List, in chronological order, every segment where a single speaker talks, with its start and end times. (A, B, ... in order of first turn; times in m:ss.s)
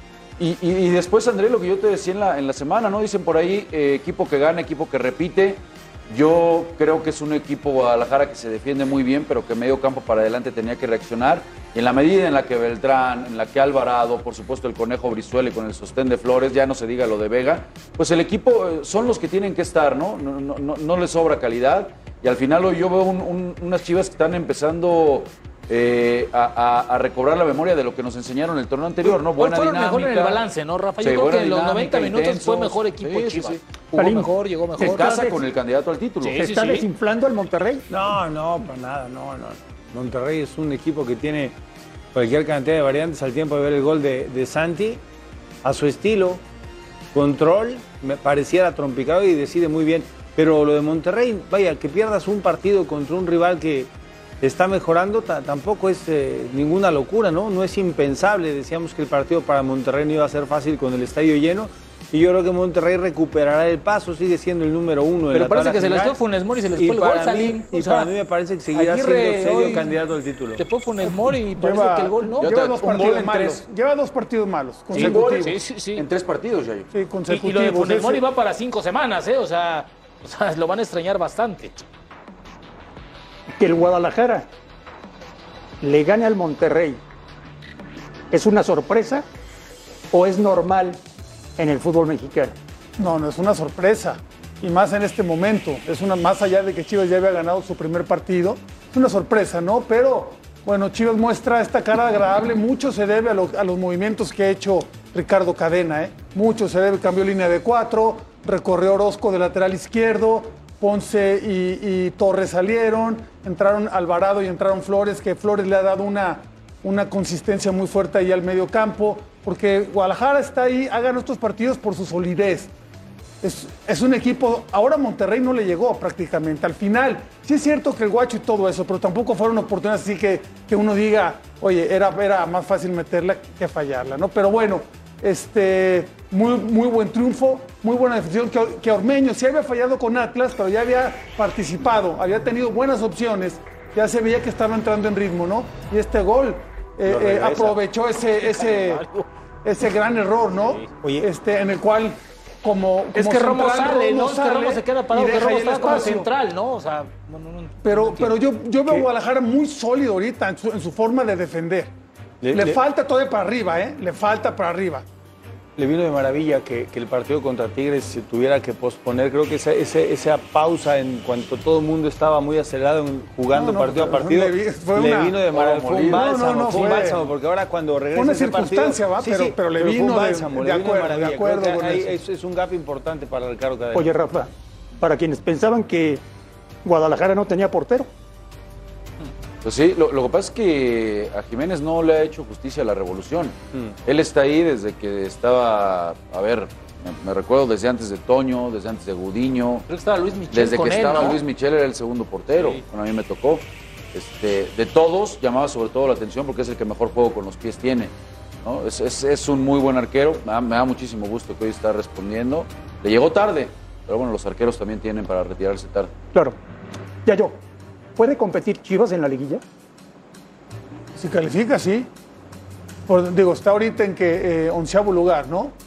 0:00.4-0:30.4 A
0:29.0-0:35.2 B
0:31.0-0:33.6 A
0:34.0-0:35.4 C
0:34.8-0:36.4 A
0:36.2-0:36.9 B
0:36.3-0:37.8 C
0:37.9-0:41.6 D
0:42.1-0:45.0 D
0:45.6-0:46.4 D
0:47.1-0:53.9 D
0:54.4-1:06.2 D
1:05.3-1:08.1 B
1:06.8-1:10.6 D
1:08.7-1:09.9 B
1:10.6-1:12.5 B
1:11.6-1:15.6 E
1:12.4-1:13.6 A
1:14.9-1:16.0 B
1:14.9-1:16.9 A
1:16.9-1:18.2 E
1:17.3-1:21.8 B
1:23.6-1:24.5 C
1:25.8-1:27.0 C
1:28.3-1:29.2 C
1:30.1-1:31.0 C
1:31.6-1:32.5 C
1:33.0-2:02.7 E
2:03.4-2:29.0 E
2:27.0-2:27.8 D
2:28.4-2:29.2 B
2:29.6-2:36.3 E
2:30.6-2:30.8 B
2:30.9-2:31.3 D
2:33.1-2:38.4 B
2:37.8-2:41.9 E
2:42.4-2:42.8 D
2:42.5-2:45.0 E
2:45.8-3:04.1 D
2:53.5-2:55.4 E
2:55.5-2:57.1 A
2:56.0-2:57.2 E
2:58.1-3:02.1 E
3:03.9-3:06.2 C
3:06.8-3:08.1 C
3:09.6-3:19.8 A
3:19.9-3:21.4 B
3:20.5-3:36.1 A
3:22.6-3:22.8 B
3:37.2-3:37.6 C
3:38.2-3:39.6 C
3:41.2-3:42.1 E
3:43.1-3:45.7 E